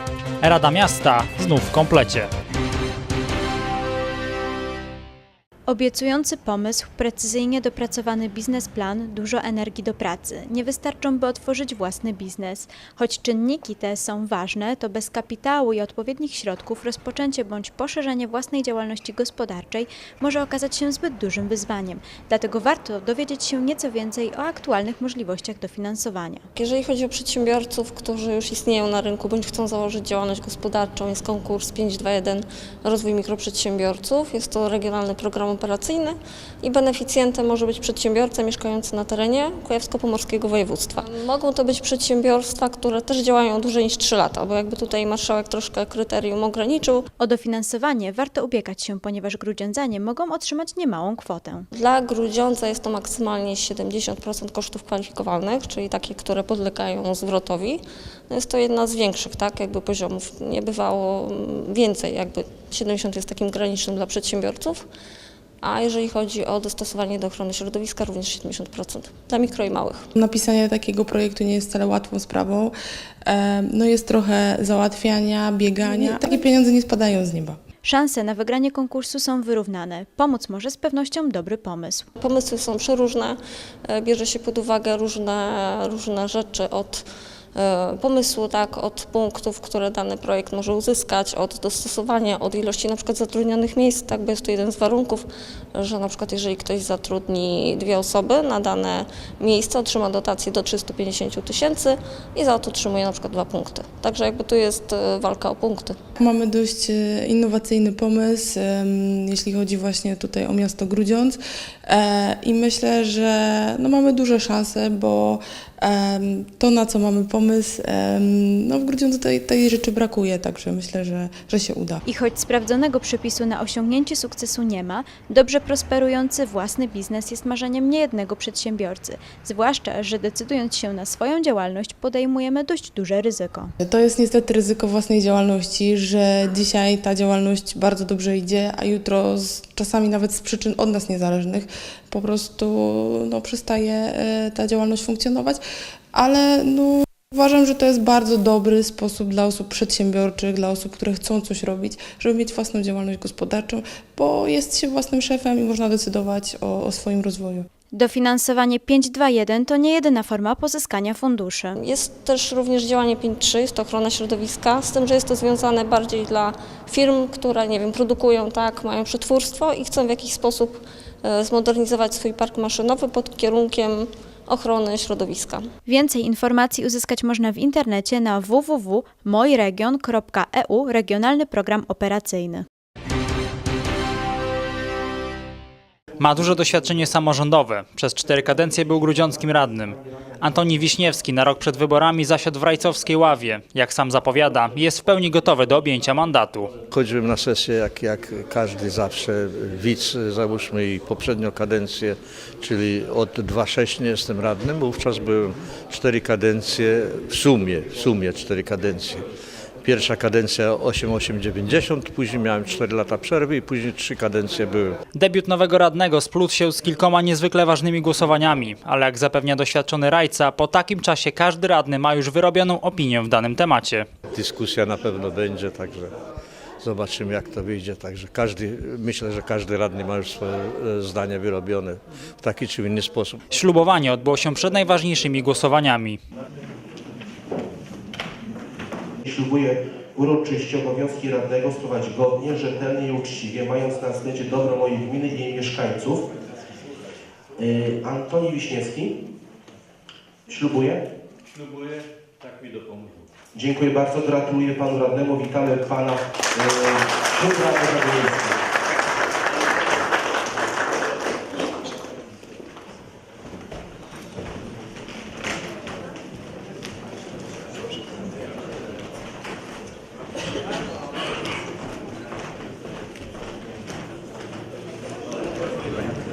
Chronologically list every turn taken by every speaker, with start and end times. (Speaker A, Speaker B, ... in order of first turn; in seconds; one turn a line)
Speaker A: 0.4-2.3
Speaker B: 5.7-26.5
Speaker C: 26.6-47.0
Speaker B: 47.2-51.7
Speaker C: 51.7-64.8
Speaker C: 65.6-70.1
Speaker D: 70.2-72.7
Speaker D: 73.3-77.6
Speaker C: 75.9-76.3
Speaker B: 77.8-82.1
Speaker C: 82.2-106.0
Speaker D: 106.2-122.0
Speaker B: 122.0-133.7
Speaker D: 133.8-145.6
Speaker D: 146.1-157.7
Speaker B: 157.9-161.8
Speaker C: 161.8-175.7
Speaker B: 175.9-182.7
Speaker A: 186.2-196.7
Speaker E: 196.9-209.2
Speaker E: 209.8-215.0
Speaker A: 215.2-224.1
Speaker E: 224.3-226.1
Speaker E: 226.8-233.4
Speaker A: 233.5-236.2
Speaker F: 239.2-246.3
Speaker F: 247.6-249.1
Speaker F: 250.5-251.0
Speaker E: 251.5-253.2
Speaker F: 253.5-258.6